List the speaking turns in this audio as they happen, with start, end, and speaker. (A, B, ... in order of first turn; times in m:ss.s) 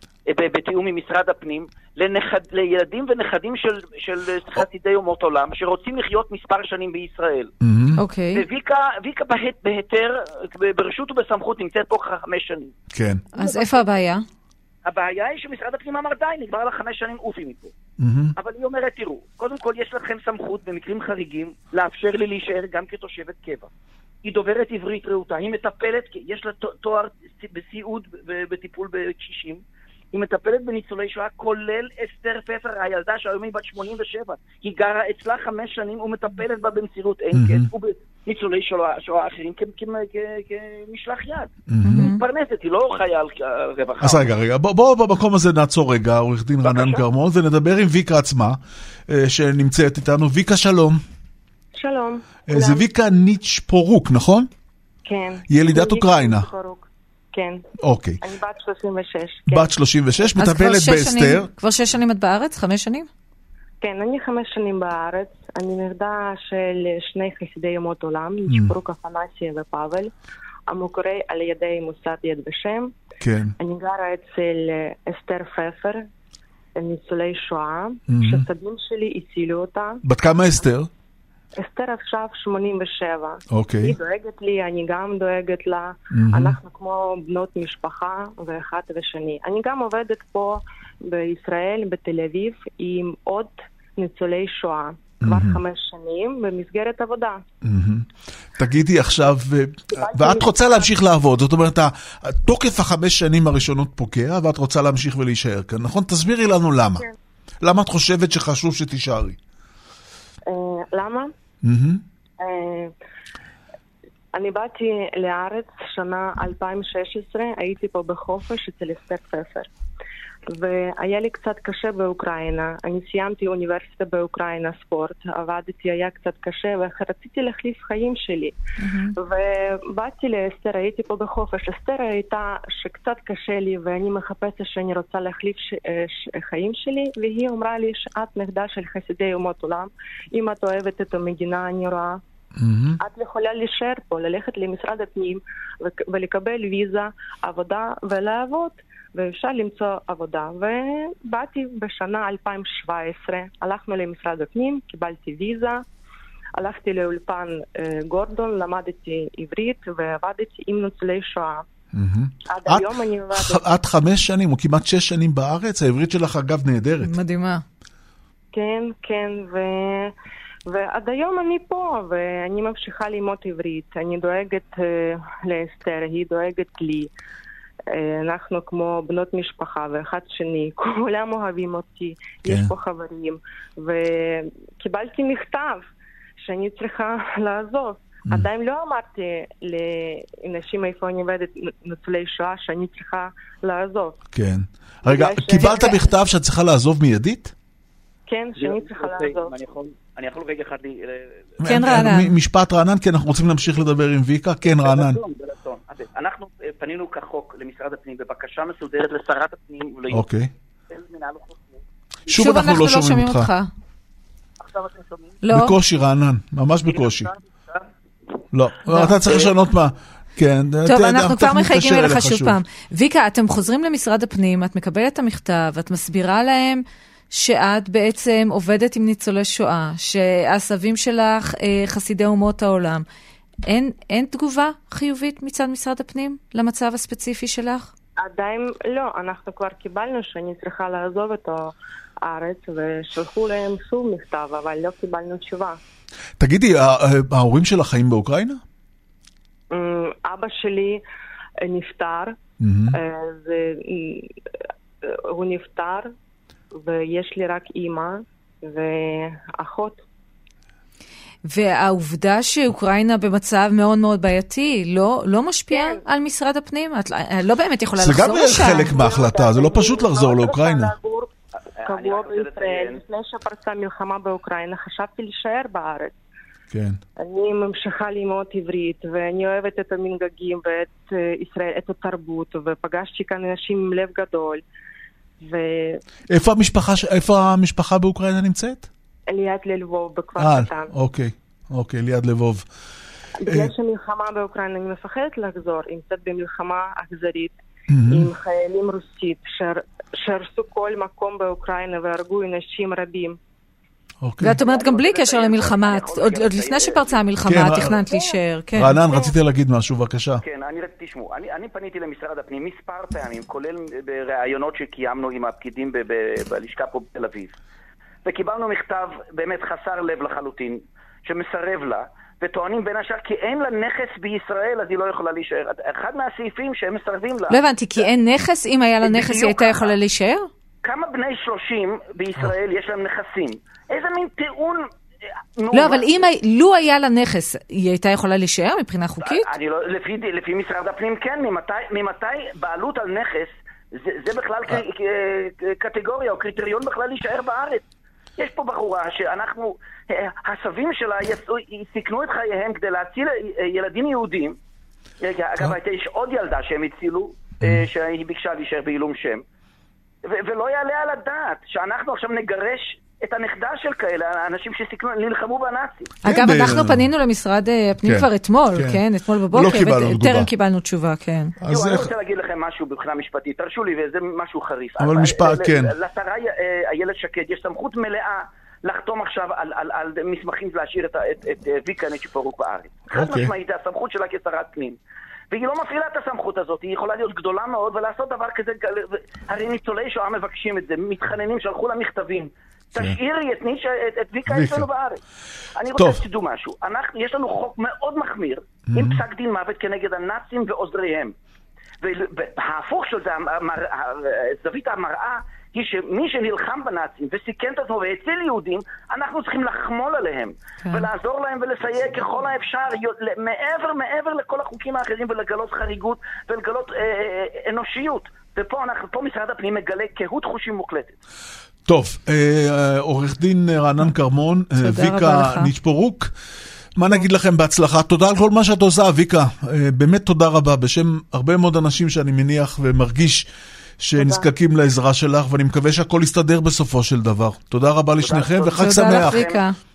0:00.3-0:07.5 A
0:07.6-0:08.0 B
0:08.0-0:08.4 C
0:08.3-0:12.7 A
0:12.9-0:13.2 B
0:13.3-0:14.2 C
0:13.3-0:14.0 A
0:14.8-0:17.7 A
0:18.0-0:18.3 B
0:18.4-0:23.7 A
0:24.2-0:44.3 A
0:37.3-0:37.7 B
0:41.7-0:42.1 B
0:41.8-0:42.2 C
0:44.0-0:51.0 B
0:46.6-0:47.0 A
0:51.7-0:52.8 D
0:52.5-0:54.5 B
0:55.0-0:57.6 D
0:55.5-0:56.5 B
0:57.8-0:58.2 B
0:58.2-0:59.7 D
0:59.5-1:01.5 B
1:00.4-1:03.1 C
1:03.8-1:10.1 D
1:08.5-1:08.7 B
1:10.7-1:12.9 D
1:13.2-1:13.5 B
1:13.6-1:16.0 D
1:16.7-1:20.0 D
1:18.1-1:18.5 B
1:20.0-1:20.9 B
1:21.6-1:37.4 D
1:23.5-1:24.0 B
1:26.1-1:26.6 B
1:35.2-1:35.6 B
1:37.6-1:38.0 B
1:38.6-1:47.0 B
1:39.9-1:40.9 D
1:47.6-1:49.4 B
1:50.5-1:51.3 D
1:51.6-1:52.0 B
1:52.4-1:52.9 D
1:54.3-1:59.7 D
2:00.5-2:08.6 D
2:08.8-2:09.1 C
2:09.1-2:22.2 D
2:22.6-2:23.0 B
2:23.0-2:35.8 D
2:36.6-2:41.6 D
2:41.9-2:47.1 B
2:42.4-2:43.6 D
2:47.0-2:47.6 C
2:48.5-2:50.1 D
2:50.6-2:57.1 D
2:57.9-3:14.2 D
3:02.4-3:02.7 B
3:14.3-3:17.5 B
3:15.0-3:16.0 D
3:18.2-3:19.6 D
3:18.6-3:22.0 A
3:21.6-3:25.2 B
3:21.7-3:22.3 C
3:24.6-3:30.2 A
3:30.1-3:30.5 B
3:30.9-3:31.8 A
3:32.3-3:33.5 B
3:32.3-3:33.7 C
3:34.6-3:35.4 A
3:35.4-3:35.7 C
3:35.5-3:37.3 B
3:36.9-3:37.9 A
3:38.5-3:42.6 B
3:38.9-3:39.2 C
3:40.8-3:53.0 C
3:53.7-3:57.9 C
3:58.2-4:05.8 D
4:06.4-4:08.6 B
4:09.7-4:11.0 D
4:11.6-4:12.3 D
4:12.6-4:13.0 B
4:12.9-4:14.3 D
4:15.0-4:16.1 D
4:16.7-4:20.0 D
4:21.4-4:28.9 C
4:25.7-4:26.0 D
4:28.0-4:30.9 B
4:28.6-4:31.3 D
4:31.8-4:33.0 A
4:31.8-4:36.1 D
4:36.7-4:37.0 B
4:37.2-4:44.6 D
4:45.4-4:46.0 D
4:46.3-4:48.9 B
4:49.3-4:50.9 D
4:50.4-4:52.6 B
4:53.4-5:03.4 D
4:53.4-4:53.7 B
4:57.9-4:58.3 B
5:04.2-5:04.6 B
5:04.4-5:09.0 C
5:04.6-5:07.2 A
5:07.4-5:08.0 B
5:07.8-5:09.3 D
5:08.7-5:10.4 B
5:10.4-5:17.5 A
5:18.2-5:28.0 A
5:27.5-5:30.5 C
5:29.0-5:29.9 A
5:30.8-5:34.8 A
5:35.6-5:36.2 A
5:35.7-5:39.5 C
5:39.2-5:47.8 A
5:48.4-5:54.6 A
5:55.2-5:59.4 A
6:00.3-6:06.2 A
6:06.2-6:11.6 C
6:06.2-6:07.1 B
6:08.0-6:10.5 B
6:09.5-6:09.8 A
6:11.6-6:12.1 B
6:11.7-6:25.0 A
6:15.0-6:15.9 B
6:23.1-6:23.5 B
6:25.5-6:35.2 A
6:34.5-6:34.9 B
6:35.8-6:41.3 A
6:35.9-6:36.2 B
6:38.9-6:39.2 B
6:42.0-7:01.2 A
7:01.9-7:06.3 B
7:04.8-7:05.7 C
7:07.0-7:13.5 B
7:14.0-7:19.5 B
7:14.2-7:14.5 D
7:18.2-7:19.6 A
7:18.8-7:19.8 C